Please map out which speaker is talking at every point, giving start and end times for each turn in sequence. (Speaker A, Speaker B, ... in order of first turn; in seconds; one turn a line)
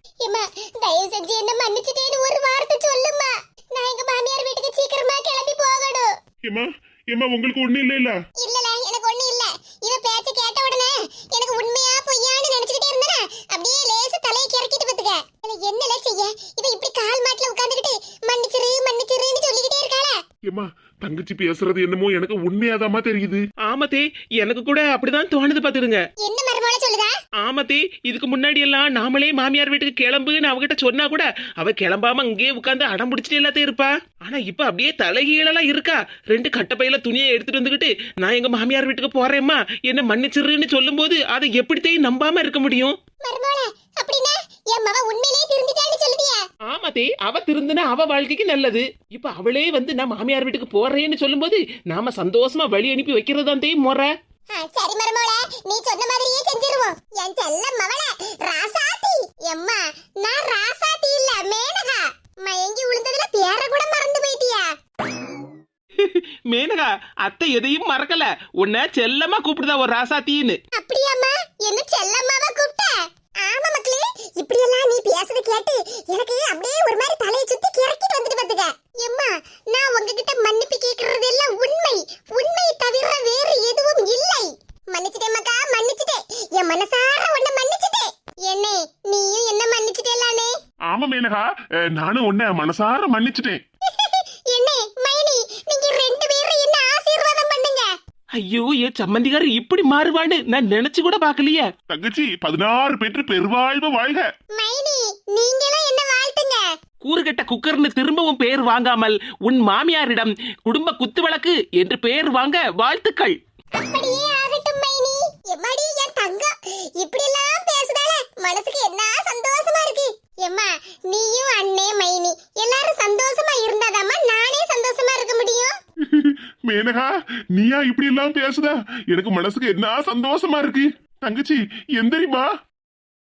Speaker A: 0.2-6.1
Speaker B: 6.5-8.2
Speaker A: 8.4-20.2
Speaker B: 20.5-23.4
Speaker C: 23.6-26.1
Speaker A: 26.2-27.1
Speaker C: 27.4-43.0
Speaker A: 43.2-46.4
Speaker C: 46.7-54.1
Speaker A: 54.5-64.7
Speaker C: 66.0-70.6
Speaker A: 70.7-90.5
Speaker B: 90.9-93.6
Speaker A: 93.9-97.9
Speaker C: 98.4-101.7
Speaker B: 101.9-104.3
Speaker A: 104.5-106.7
Speaker C: 107.0-113.4
Speaker A: 113.8-125.8
Speaker B: 126.0-132.5